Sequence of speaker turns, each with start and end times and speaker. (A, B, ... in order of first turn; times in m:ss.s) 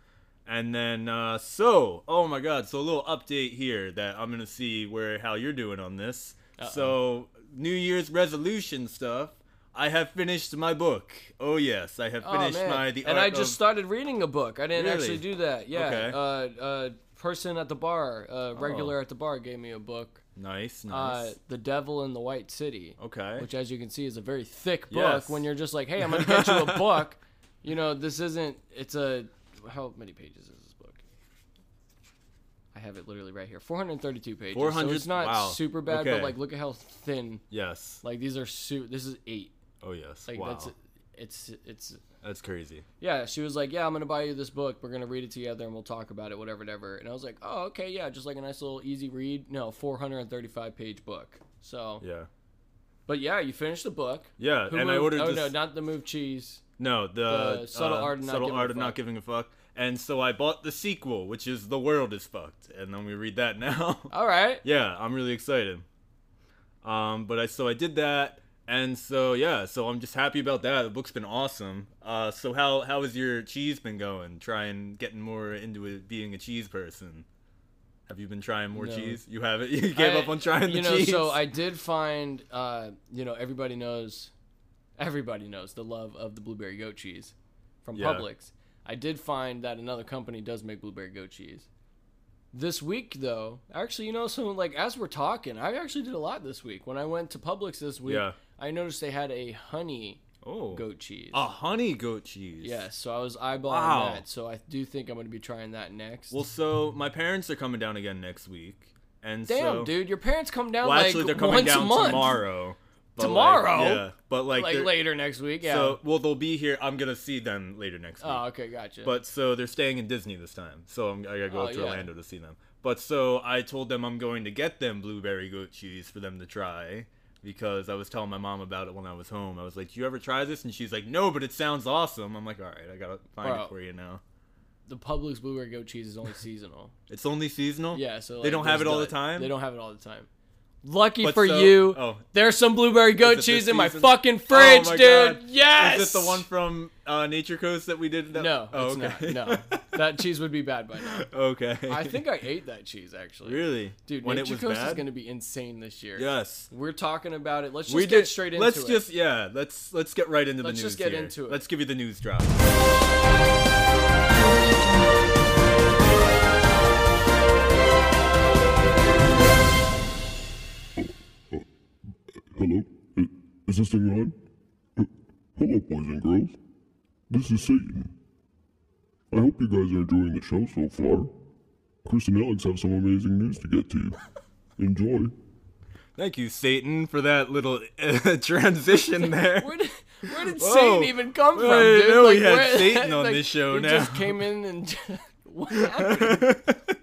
0:00.5-0:13.6 A
0:06.6-0:07.0 B
0:12.2-0:20.2 B
0:14.8-0:16.2 A
0:18.6-0:19.0 A
0:20.4-0:21.3 A
0:20.9-0:31.0 B
0:23.0-0:23.5 A
0:24.9-0:25.5 A
0:26.0-0:27.0 A
0:32.7-0:37.4 B
0:34.5-0:36.4 A
0:37.5-0:38.0 A
0:38.0-0:39.5 B
0:39.8-0:40.7 A
0:40.3-0:42.0 B
0:42.2-0:42.8 A
0:43.0-0:52.0 B
0:52.0-0:52.3 A
0:53.1-0:56.6 B
0:54.4-0:55.6 A
0:56.8-1:04.1 A
0:57.2-0:59.0 B
1:04.1-1:04.6 B
1:04.6-1:05.9 A
1:06.8-1:17.3 A
1:18.1-1:21.4 A
1:18.8-1:19.2 B
1:19.9-1:24.3 B
1:25.0-1:27.3 B
1:27.8-1:31.7 B
1:28.0-1:28.2 A
1:32.5-1:40.2 B
1:38.0-1:38.4 A
1:40.4-1:42.8 A
1:40.7-1:41.4 B
1:42.6-1:46.4 B
1:43.6-1:44.2 A
1:46.3-1:49.9 A
1:49.5-1:52.4 B
1:50.8-1:55.0 A
1:53.2-1:56.0 B
1:55.6-1:58.4 A
1:58.2-1:59.2 B
1:59.0-2:14.2 A
2:01.5-2:02.1 B
2:13.4-2:13.7 B
2:14.9-2:16.9 B
2:17.1-2:19.5 A
2:17.9-2:20.3 B
2:20.8-2:26.5 B
2:21.2-2:22.3 A
2:23.2-2:30.0 A
2:28.3-2:31.2 B
2:31.0-2:32.2 A
2:31.9-2:39.0 B
2:33.4-2:35.1 A
2:36.2-2:36.7 A
2:37.9-2:42.6 A
2:40.6-2:41.6 B
2:51.0-2:51.6 C
2:52.5-2:54.4 C
2:55.0-2:56.6 C
2:57.3-2:58.1 C
2:59.3-3:01.3 C
3:02.0-3:04.2 C
3:04.8-3:05.3 C
3:06.2-3:09.7 A
3:09.4-3:16.6 B
3:10.3-3:14.4 A
3:15.8-3:16.8 A